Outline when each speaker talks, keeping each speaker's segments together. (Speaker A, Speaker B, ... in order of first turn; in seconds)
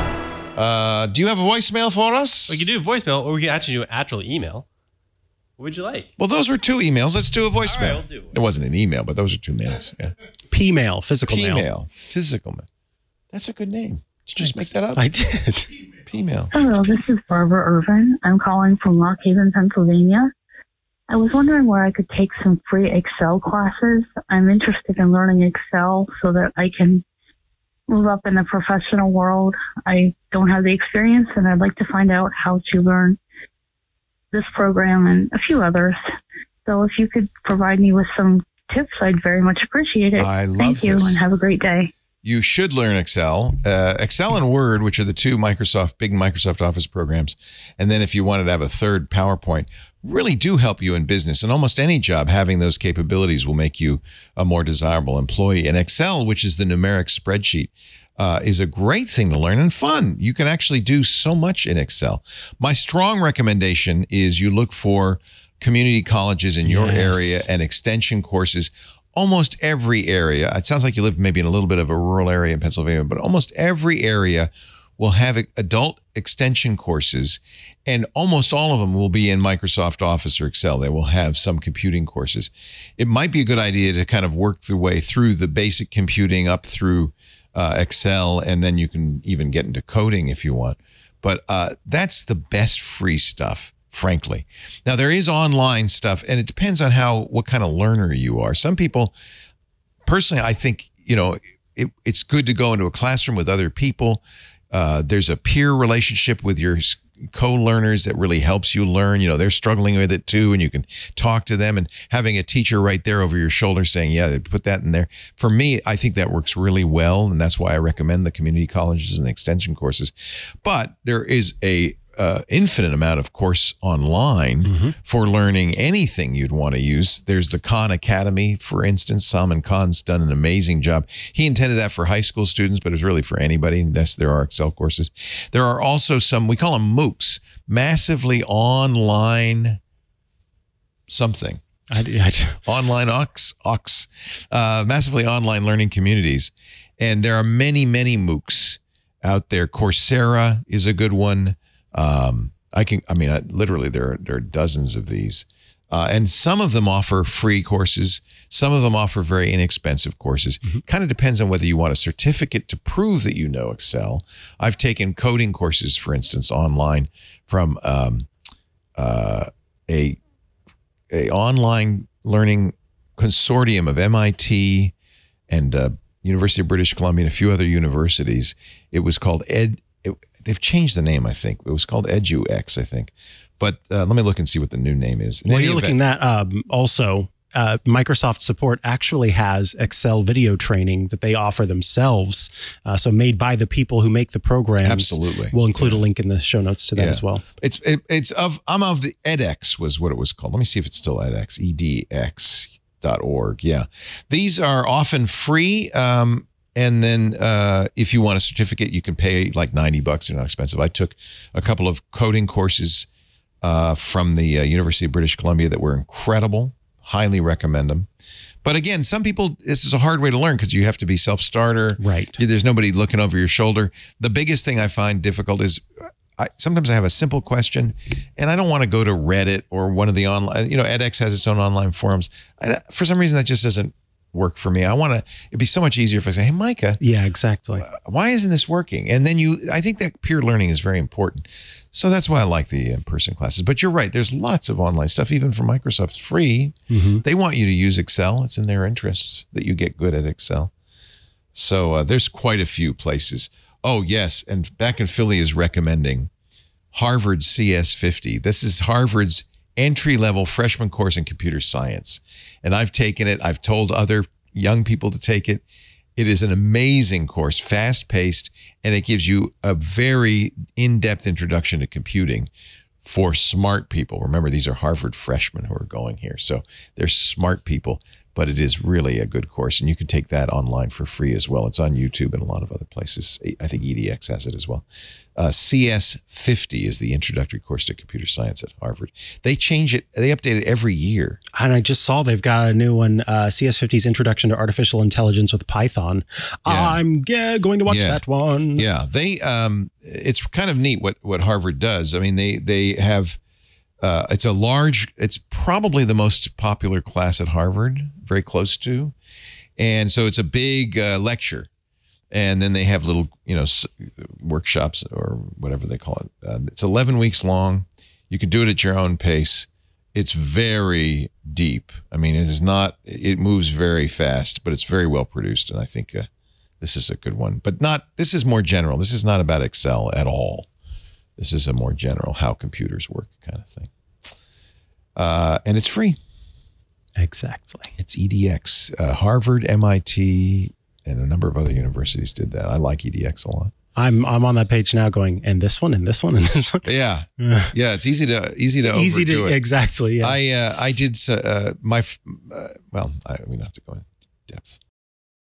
Speaker A: 0.6-2.6, 6.2-10.1, 11.2-12.7, 13.3-15.0, 16.1-17.0, 40.2-41.2, 42.2-99.1, 100.0-120.1, 120.6-139.8, 141.1-141.6, 142.7-168.3, 169.0-170.2, 171.1-174.9, 175.5-186.0, 194.8-196.1, 196.9-213.1, 213.6-218.1, 218.7-225.8, 226.4-237.0, 237.8-250.7, 251.5-256.3, 256.9-265.6, 266.2-272.5, 273.0-284.9, 285.4-291.4, 296.7-297.0, 297.9-298.2, 298.8-303.4, 304.0-309.1, 309.8-311.7, 312.3-326.3, 326.8-330.7, 331.4-333.9, 335.2-336.2, 338.0-343.7, 346.8-349.6, 350.2-354.8
Speaker B: 2.5-4.7, 5.6-6.1, 7.7-8.3
Speaker C: 10.5-11.7, 14.4-15.7, 66.7-67.5, 124.6-124.9, 141.9-142.6, 185.5-197.4, 222.0-222.4, 237.0-237.9, 246.9-247.2, 291.5-298.9, 337.2-337.9, 343.9-346.9, 347.4-347.7, 348.9-350.4
Speaker D: 16.5-20.3, 21.1-27.0, 27.9-33.2, 34.3-36.0, 36.6-41.9